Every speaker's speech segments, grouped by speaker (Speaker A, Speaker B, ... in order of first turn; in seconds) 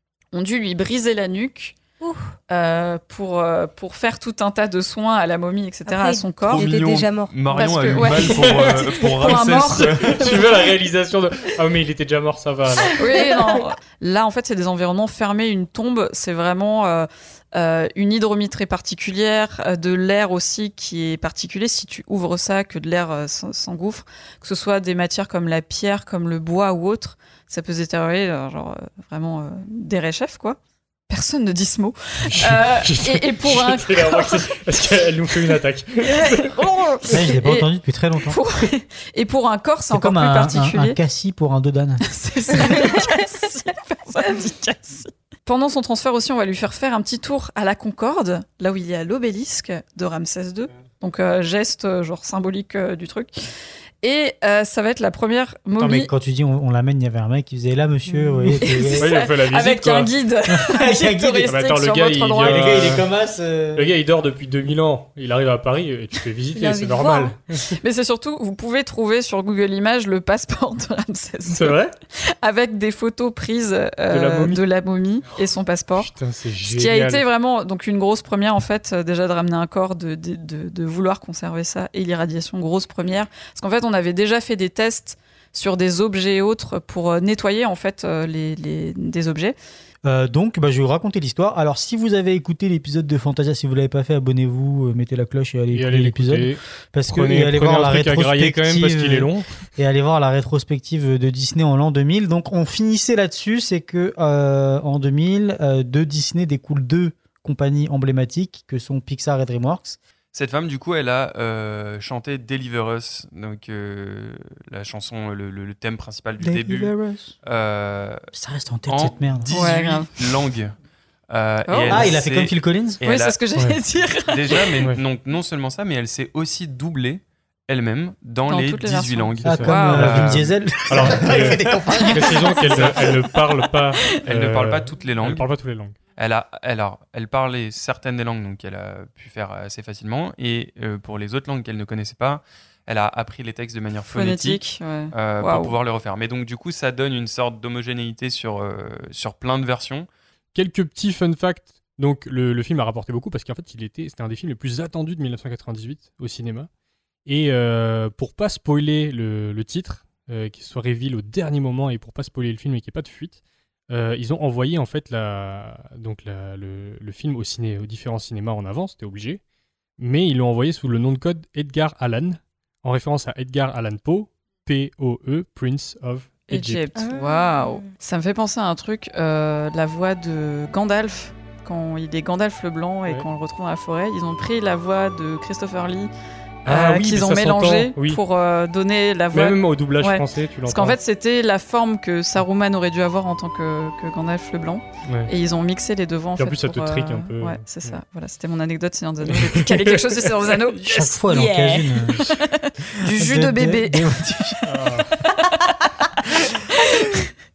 Speaker A: 0.3-1.8, 2.5-6.7, 7.5-8.4, 9.2-10.4, 13.0-30.6, 31.1-34.5, 36.0-37.7, 38.2-41.0, 42.0-53.3, 54.0-56.1, 58.6-62.9, 67.8-71.8, 72.4-89.5, 119.5-120.1, 121.7-122.1, 123.0-124.7, 128.5-130.1, 131.9-132.8, 133.9-134.2, 144.1-145.7, 176.5-186.1, 186.6-204.6, 205.3-205.9
Speaker B: 2.0-2.3, 5.9-8.0, 66.5-67.4, 176.9-177.9
Speaker C: 6.5-10.2, 110.3-118.2, 118.9-120.7, 121.3-123.4, 124.2-130.6, 132.7-133.2, 134.2-135.4, 136.2-150.1
Speaker D: 8.0-9.3, 10.0-13.2, 32.3-36.5, 59.0-60.1, 61.5-63.0, 63.8-67.7, 71.5-71.9, 74.1-74.6, 76.0-77.2, 95.7-99.6, 129.5-130.3, 130.9-131.6, 132.1-135.9, 150.5-156.7, 157.2-169.4, 170.0-177.0, 186.6-188.2, 189.3-191.0, 195.0-195.3, 196.3-198.0, 199.3-200.0, 204.7-205.1
Speaker E: 37.1-38.4, 39.9-42.0, 55.8-59.1, 60.5-61.5, 62.4-63.9, 90.0-110.0, 116.4-117.3, 118.3-119.5, 121.9-123.0, 129.4-132.6, 200.9-202.2, 203.1-204.6